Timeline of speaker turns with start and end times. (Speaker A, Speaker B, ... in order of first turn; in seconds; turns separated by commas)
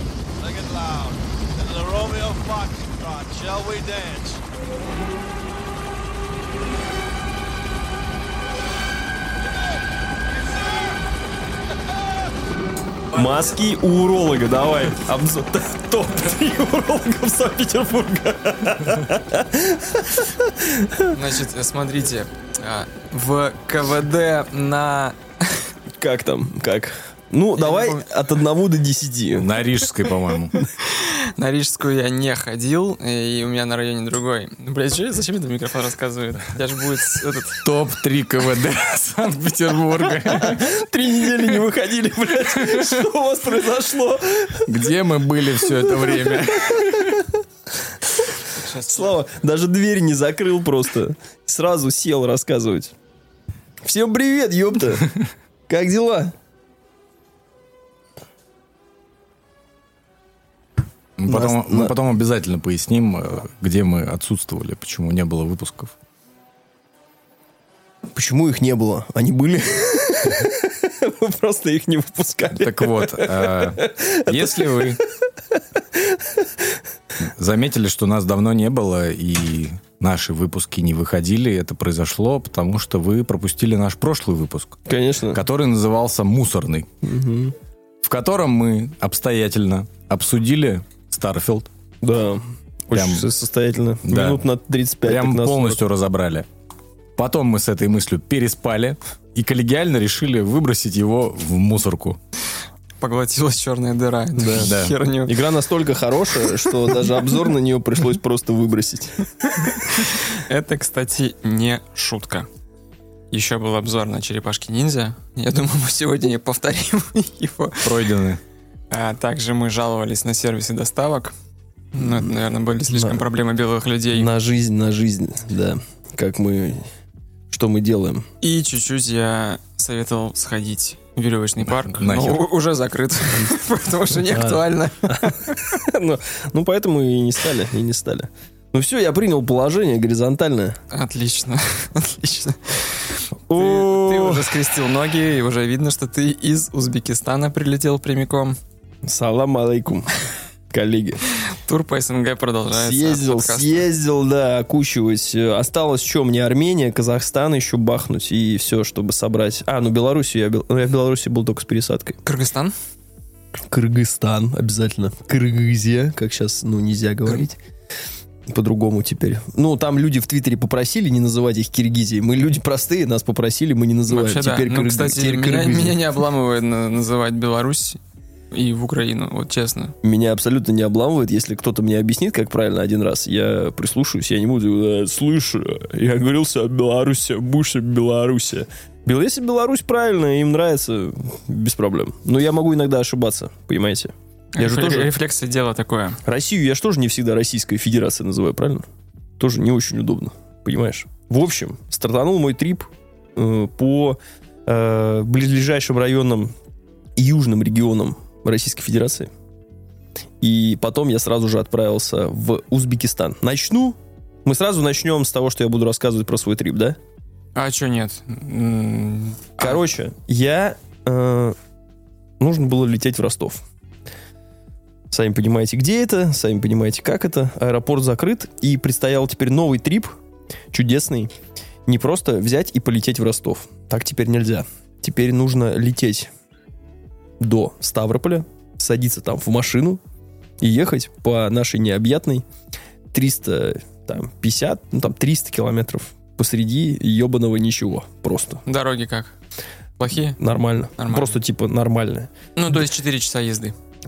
Speaker A: 0.4-4.4, Speaker A: 9.5-9.8, Speaker A: 10.3-10.9, Speaker B: 13.1-21.2, Speaker C: 21.1-25.7, Speaker B: 26.0-29.5, Speaker C: 27.6-28.0, Speaker D: 29.4-30.5, Speaker C: 30.8-37.6, Speaker D: 37.6-40.7, Speaker B: 40.3-44.7, Speaker D: 44.7-47.2, Speaker B: 46.7-47.2, Speaker C: 48.6-49.1, Speaker B: 48.8-52.9, Speaker B: 53.8-55.1, Speaker B: 55.7-56.3, Speaker D: 61.2-65.9, Speaker B: 61.3-61.9, Speaker B: 68.1-75.0, Speaker D: 72.5-75.0, Speaker B: 75.9-76.5, Speaker D: 77.2-84.8, Speaker B: 84.9-85.4, Speaker D: 85.3-86.9, Speaker B: 87.0-87.5, Speaker D: 88.0-91.7, Speaker B: 92.0-95.8, Speaker D: 92.9-93.3, Speaker D: 94.1-94.4, Speaker D: 95.1-96.5, Speaker D: 97.2-102.2, Speaker C: 103.0-105.4, Speaker B: 104.4-104.7, Speaker D: 104.6-105.0, Speaker B: 105.3-109.8, Speaker C: 109.6-112.5, Speaker C: 113.3-117.9, Speaker D: 117.8-118.4, Speaker C: 118.9-121.3, Speaker C: 121.9-124.3, Speaker B: 122.0-122.2, Speaker B: 122.9-123.2, Speaker B: 124.1-126.8, Speaker B: 127.5-128.3, Speaker C: 128.4-135.8, Speaker D: 131.9-132.4, Speaker B: 135.1-140.8, Speaker C: 140.9-148.6, Speaker B: 143.5-144.5, Speaker B: 149.1-150.1, Speaker B: 150.7-151.2, Speaker C: 151.5-153.8, Speaker B: 152.7-162.2, Speaker C: 162.3-162.7, Speaker B: 163.7-167.6, Speaker B: 168.5-176.0, Speaker C: 174.1-178.0, Speaker C: 178.5-179.9, Speaker B: 180.0-195.1, Speaker C: 194.6-196.2, Speaker B: 196.2-198.8, Speaker B: 199.4-206.5, Speaker B: 207.2-209.3, Speaker B: 210.4-217.0, Speaker C: 217.6-219.8, Speaker B: 219.6-221.6, Speaker B: 222.4-223.6, Speaker B: 225.1-230.2, Speaker B: 230.7-231.3, Speaker B: 231.9-236.3, Speaker B: 237.4-240.0, Speaker B: 240.6-242.4, Speaker B: 243.1-248.6, Speaker C: 248.7-249.3, Speaker C: 250.0-250.4, Speaker B: 250.4-252.3, Speaker C: 251.0-251.3, Speaker C: 252.6-253.8